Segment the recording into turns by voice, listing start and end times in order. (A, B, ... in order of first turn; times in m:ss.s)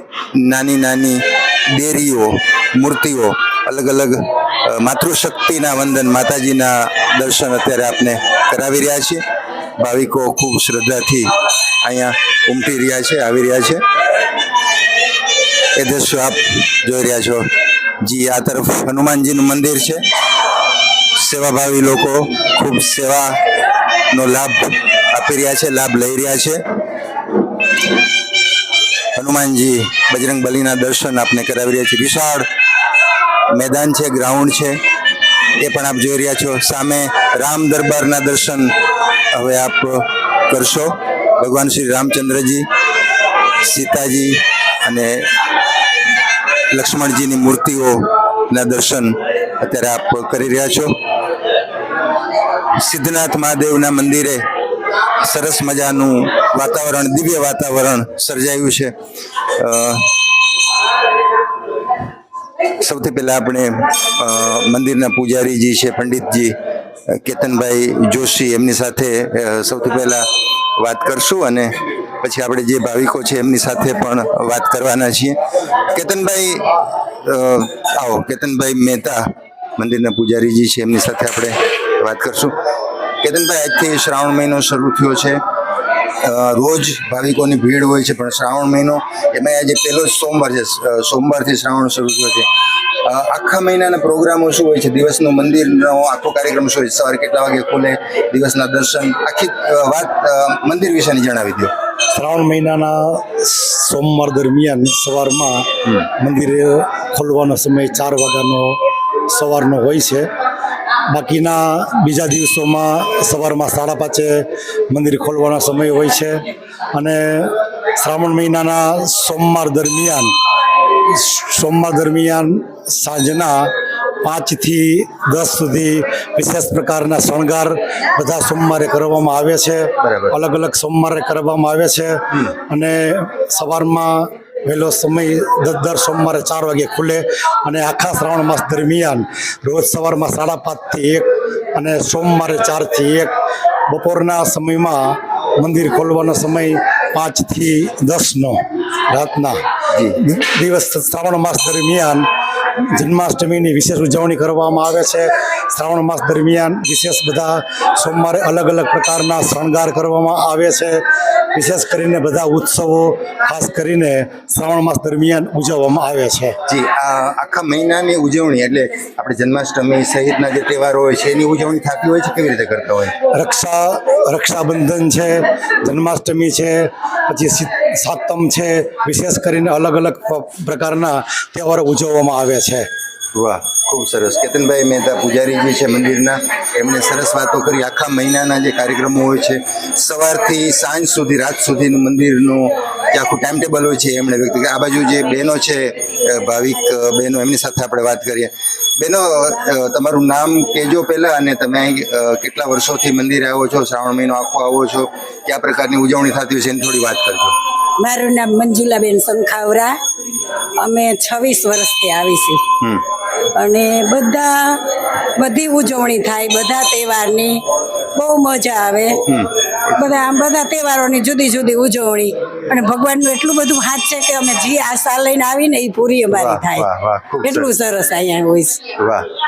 0:00.3-0:09.2 A
0:09.8-0:11.3 A
0:11.8-0:13.8 A
0:15.8-0:17.4 A
0:18.0-0:20.0 A
0:21.2-0:23.4 A
0:24.1-0:26.6 A
0:29.1-0:32.4 A
0:33.5-0:34.8 A
0:35.6-0:38.7 A
0:39.3-0:42.7 A
0:43.6-0:45.2 A
0:46.7-0:50.9 A
0:52.8-0:54.4 A
0:55.2-0:58.9 A
0:59.6-1:00.1 A
1:02.8-1:06.5 A
1:07.1-1:10.2 A
1:10.8-1:19.2 A
1:19.8-1:22.5 A
1:23.2-1:25.4 A
1:26.2-1:32.4 A
1:33.0-1:41.7 A
1:42.1-1:48.8 B
1:49.3-1:50.3 B
1:51.1-1:56.4 B
1:56.9-2:00.3 B
2:01.1-2:03.7 B
2:04.2-2:23.3 B
2:10.0-2:10.4 A
2:23.9-2:28.6 B
2:29.1-2:29.6 B
2:30.2-2:32.3 B
2:32.8-2:41.0 B
2:41.5-2:46.6 B
2:46.7-2:53.1 A
2:53.3-3:02.9 B
3:03.3-3:27.5 A
3:28.0-3:30.0 C
3:30.8-3:32.6 C
3:33.6-3:34.8 C
3:35.4-3:37.6 C
3:38.1-3:39.2 C
3:39.2-3:40.0 A
3:40.0-3:46.9 C
3:46.3-3:47.7 A
3:47.4-3:48.8 C
3:49.0-3:49.2 A